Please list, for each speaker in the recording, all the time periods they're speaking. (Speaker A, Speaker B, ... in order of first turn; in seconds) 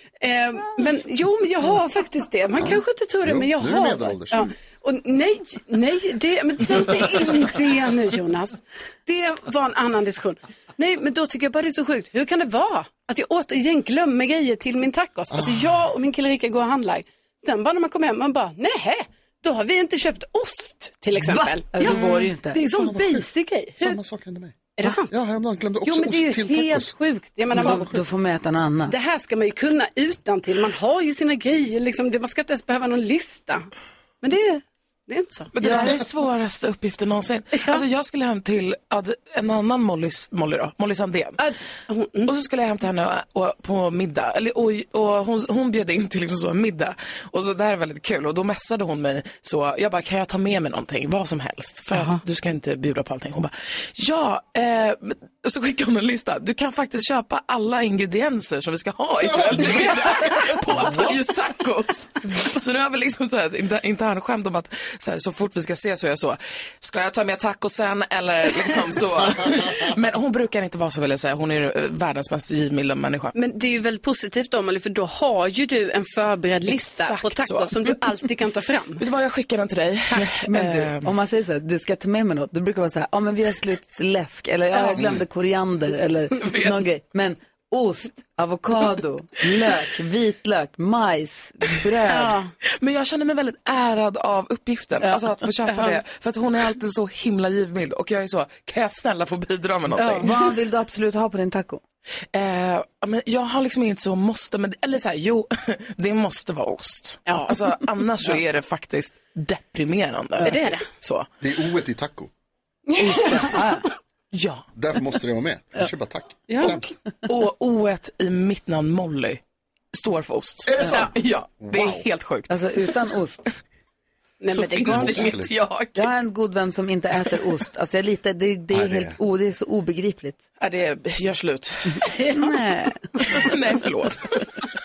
Speaker A: 0.2-24.0, 24.8-25.1, 25.8-28.0, 28.9-33.7, 34.2-35.9, 37.5-37.8, 41.4-42.3, 73.3-79.0, 92.1-92.5, 95.7-96.0, 100.0-100.3, 107.3-107.6, 110.4-110.9, 120.8-121.1, 124.4-125.3
Speaker B: 2.6-4.5, 15.3-15.7, 22.7-23.3, 23.8-26.9, 27.6-27.8, 59.2-59.9, 60.7-61.0, 111.4-112.3, 114.8-116.9, 120.7-121.1, 121.6-122.1, 124.9-125.5, 128.7-129.2
Speaker C: 21.3-22.6, 27.6-28.9, 80.4-92.4, 100.2-101.8, 113.0-113.8, 122.5-123.5, 126.0-130.4, 132.3-133.4
Speaker D: 35.5-41.4, 42.3-73.3, 76.7-77.9, 79.0-81.1, 86.4-86.8, 92.8-100.4, 102.3-111.3, 114.3-114.7, 117.3-119.4, 119.9-122.9, 124.5-126.1, 130.6-132.3, 133.2-134.5